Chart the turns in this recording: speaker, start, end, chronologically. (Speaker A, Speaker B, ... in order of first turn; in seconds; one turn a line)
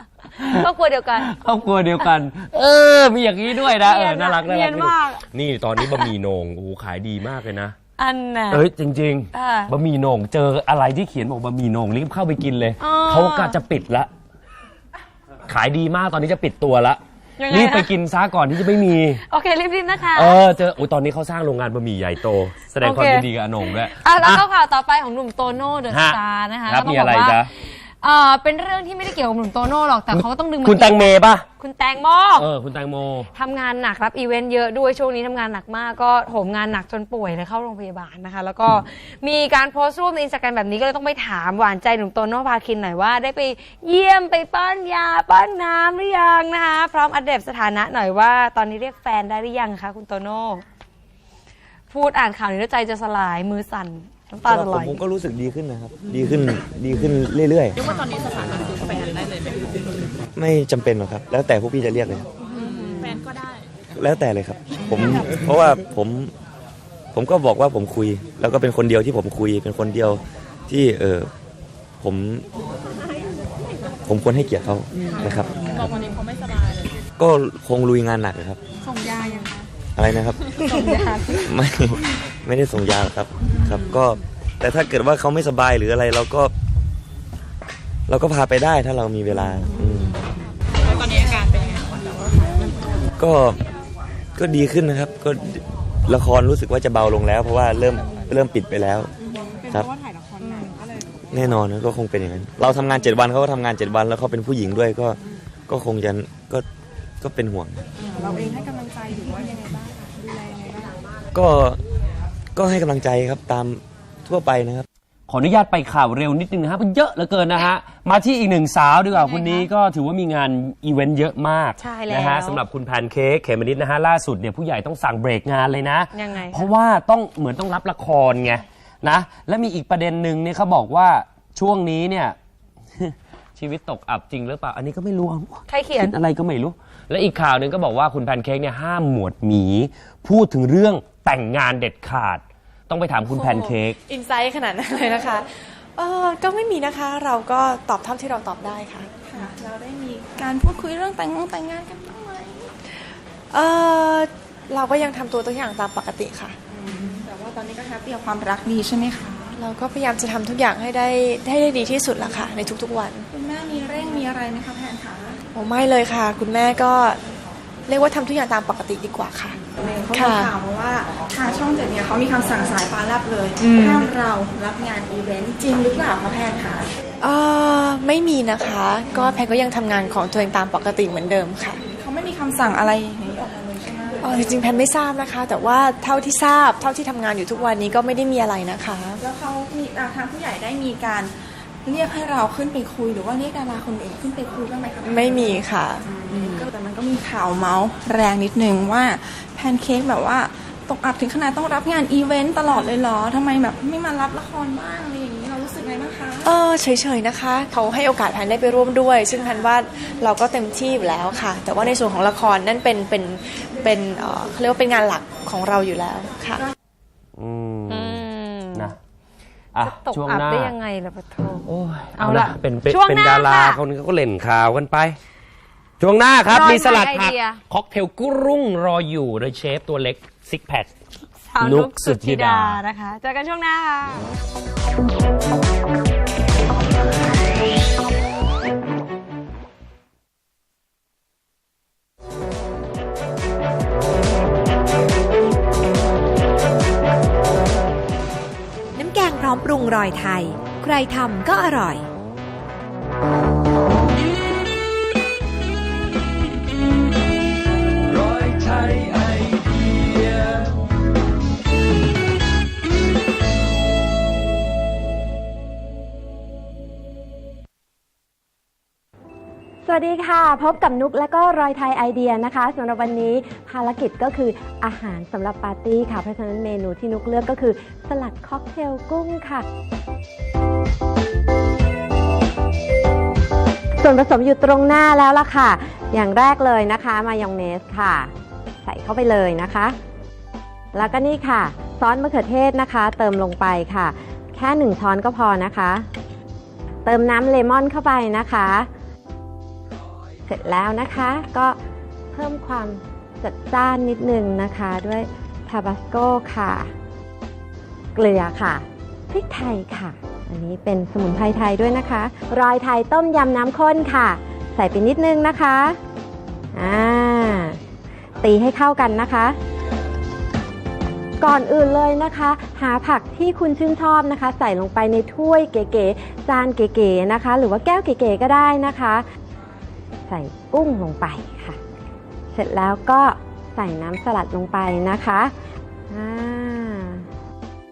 Speaker A: 0.4-0.7
Speaker B: 0.4-1.3
Speaker A: 1.2-7.8
Speaker B: 3.6-5.2
Speaker B: 8.0-8.6
Speaker A: 8.5-14.1
Speaker B: 9.3-9.7
Speaker B: 12.8-13.6
Speaker A: 15.5-19.2
Speaker B: 17.4-17.9
Speaker B: 19.3-20.4
Speaker A: 20.1-24.4
Speaker B: 22.8-27.4
Speaker A: 25.9-27.5
Speaker B: 28.0-32.4
Speaker A: 30.1-31.4
Speaker A: 32.4-33.3
Speaker B: 33.3-50.6
Speaker B: 51.9-55.0
Speaker C: 54.4-57.9
Speaker C: 60.4-62.3
Speaker C: 63.9-66.3
Speaker C: 67.1-71.3
Speaker C: 72.0-72.5
Speaker C: 74.0-75.6
Speaker C: 77.2-78.6
Speaker D: 78.8-79.7
Speaker C: 79.9-80.6
Speaker D: 80.8-81.2
Speaker C: 81.3-86.5
Speaker C: 88.1-90.2
Speaker C: 93.2-93.6
Speaker C: 94.3-99.1
Speaker D: 99.2-101.0
Speaker C: 101.3-106.6
Speaker C: 107.2-107.8
Speaker D: 108.0-110.9
Speaker C: 111.3-111.8
Speaker C: 112.5-114.8
Speaker A: 115.3-132.3
Speaker B: 119.1-119.7
Speaker B: 121.8-122.6
Speaker B: 126.1-126.7
Speaker A: 133.0-144.0
Speaker B: 135.7-136.1
Speaker E: 143.3-149.4
Speaker D: 149.2-152.7
Speaker E: 153.5-156.6
Speaker D: 156.7-159.6
Speaker E: 159.6-163.3
Speaker D: 163.3-165.4
Speaker E: 165.5-167.2
Speaker E: 167.9-169.6
Speaker D: 169.8-176.9
Speaker E: 170.1-170.5
Speaker E: 173.6-174.1
Speaker E: 177.2-181.8
Speaker D: 181.8-184.6
Speaker E: 184.2-189.2
Speaker D: 189.2-206.5
Speaker E: 195.0-196.7
Speaker E: 206.4-216.6
Speaker A: 217.4-219.0
Speaker B: 217.9-218.9
Speaker A: 219.7-220.7
Speaker B: 219.8-223.8
Speaker A: 221.7-225.2
Speaker A: 226.0-230.9
Speaker B: 226.5-227.6
Speaker B: 231.5-234.2
Speaker A: 231.6-232.8
Speaker F: 248.9-252.0
Speaker G: 269.8-279.6
Speaker G: 284.0-288.3
Speaker G: 288.8-290.0
Speaker G: 290.9-296.1
Speaker G: 297.0-298.9
Speaker G: 300.5-301.8
Speaker G: 302.3-306.9
Speaker G: 308.1-316.0
Speaker G: 316.7-317.8
Speaker G: 318.4-319.6
Speaker G: 321.4-329.2
Speaker G: 330.3-331.8
Speaker G: 332.5-335.5
Speaker G: 336.1-337.2